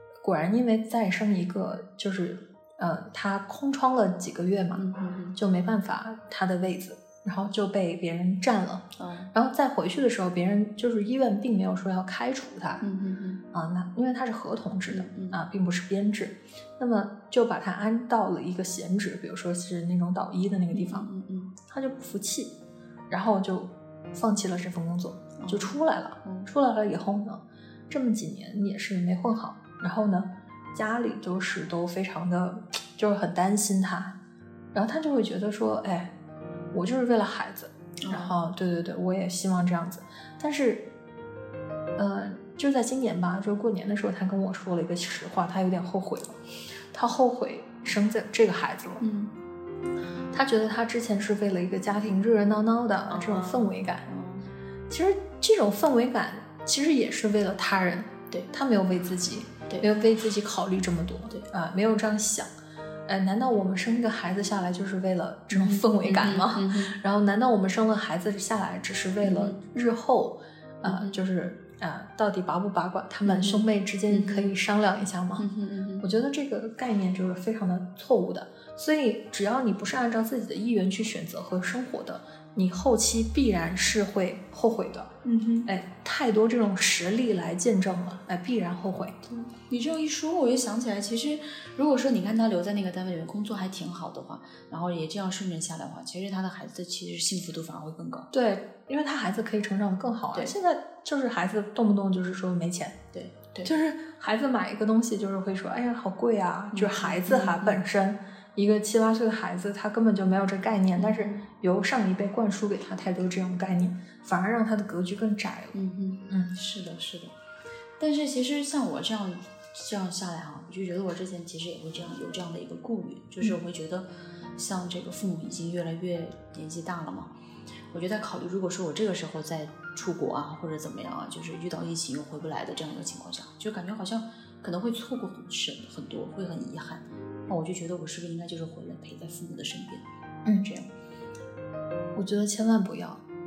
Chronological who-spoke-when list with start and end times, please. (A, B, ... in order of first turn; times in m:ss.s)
0:00.2-0:04.8 A
0:04.7-0:05.4 B
0:05.4-0:12.8 A
0:09.0-0:09.3 B
0:12.8-0:13.4 B
0:13.5-0:21.1 A
0:14.9-0:15.4 B
0:20.7-0:21.5 B
0:21.7-0:22.5 A
0:23.1-0:34.1 A
0:25.4-0:25.7 B
0:26.2-0:26.5 B
0:34.7-0:36.1 A
0:36.7-0:40.8 A
0:38.0-0:38.3 B
0:42.0-0:46.4 A
0:46.9-0:49.0 A
0:49.0-0:49.3 B
0:50.3-0:54.0 A
0:53.1-0:54.5 B
0:54.9-1:02.5 A
1:03.1-1:15.4 A
1:05.5-1:07.0 B
1:09.2-1:09.6 B
1:10.8-1:11.2 B
1:13.2-1:14.5 B
1:15.4-1:16.1 B
1:16.0-1:25.1 A
1:25.2-1:25.7 B
1:25.7-1:29.1 A
1:29.2-1:38.3 B
1:38.3-1:43.0 A
1:43.1-1:43.7 B
1:43.6-1:55.8 A
1:46.7-1:47.8 B
1:50.9-1:51.5 B
1:55.7-1:57.3 B
1:56.3-1:56.5 A
1:58.0-2:07.3 B
2:07.9-2:20.0 B
2:20.6-2:20.9 B
2:22.1-2:23.2 A